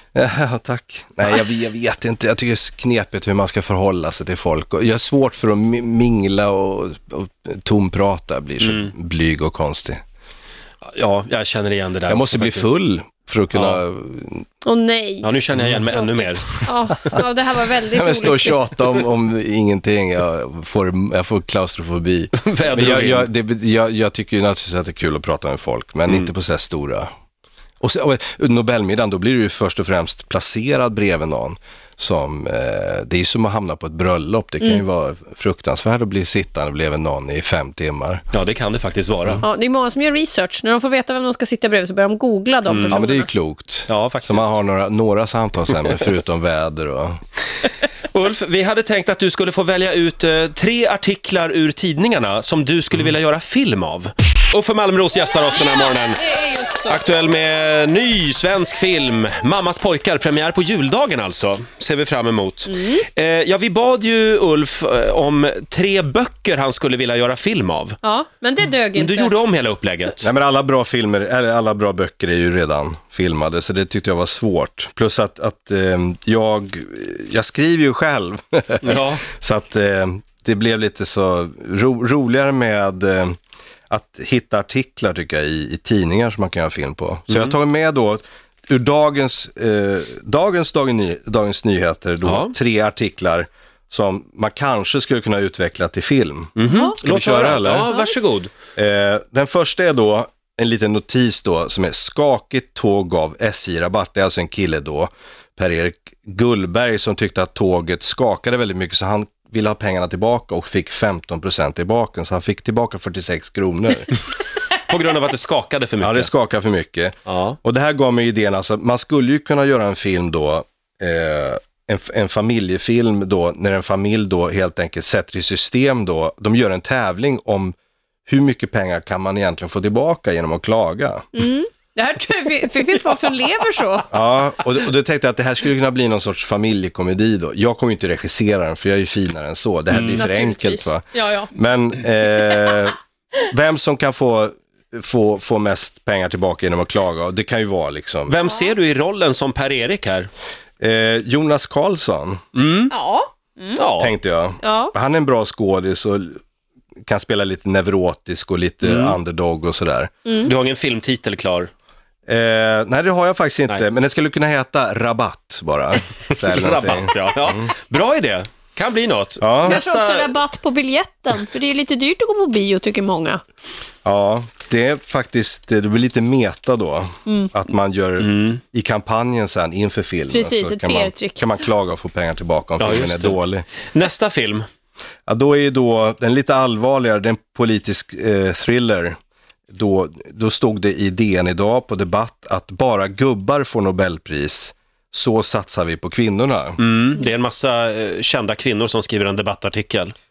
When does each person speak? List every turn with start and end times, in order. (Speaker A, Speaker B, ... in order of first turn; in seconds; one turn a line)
Speaker A: 0.1-10.0
Speaker B: 8.6-8.9
Speaker B: 10.8-12.8
Speaker A: 12.1-14.4
Speaker B: 13.5-13.8
Speaker C: 14.6-15.3
Speaker B: 15.2-16.7
Speaker C: 15.9-18.6
Speaker A: 17.9-27.1
Speaker B: 22.3-23.3
Speaker A: 27.8-38.2
Speaker B: 38.3-39.4
Speaker C: 39.4-43.3
Speaker B: 42.7-43.0
Speaker A: 42.9-47.2
Speaker B: 43.9-44.6
Speaker B: 48.1-56.3
Speaker C: 55.3-57.2
Speaker B: 56.8-68.0
Speaker C: 62.7-63.0
Speaker C: 68.0-69.3
Speaker B: 68.9-70.3
Speaker A: 70.2-83.4
Speaker B: 78.8-79.2
Speaker A: 83.9-97.9
Speaker B: 87.3-87.5
Speaker B: 92.2-92.5
Speaker B: 96.5-98.5
Speaker C: 96.6-97.0
Speaker C: 97.9-98.2
Speaker A: 98.8-114.1
Speaker B: 114.8-116.3
Speaker A: 116.0-127.7
Speaker B: 117.3-117.6
Speaker A: 128.3-131.3
Speaker C: 131.3-134.1
Speaker A: 134.1-148.4
Speaker B: 139.9-140.2
Speaker C: 140.1-141.5
Speaker B: 148.3-150.3
Speaker C: 148.4-148.7
Speaker A: 150.8-152.4
Speaker B: 152.5-152.9
Speaker C: 152.9-153.8
Speaker B: 153.8-154.1
Speaker A: 154.0-156.4
Speaker C: 154.6-154.9
Speaker A: 157.1-160.1
Speaker B: 158.8-159.2
Speaker C: 160.2-160.5
Speaker B: 160.4-161.7
Speaker A: 162.2-167.7
Speaker B: 166.3-170.3
Speaker A: 169.4-169.8
Speaker C: 169.6-173.4
Speaker A: 174.0-183.7
Speaker C: 177.3-177.5
Speaker B: 178.2-178.6
Speaker C: 180.3-181.5
Speaker B: 182.8-183.4
Speaker B: 183.9-184.6
Speaker A: 185.3-189.2
Speaker A: 189.7-196.8
Speaker B: 196.8-200.1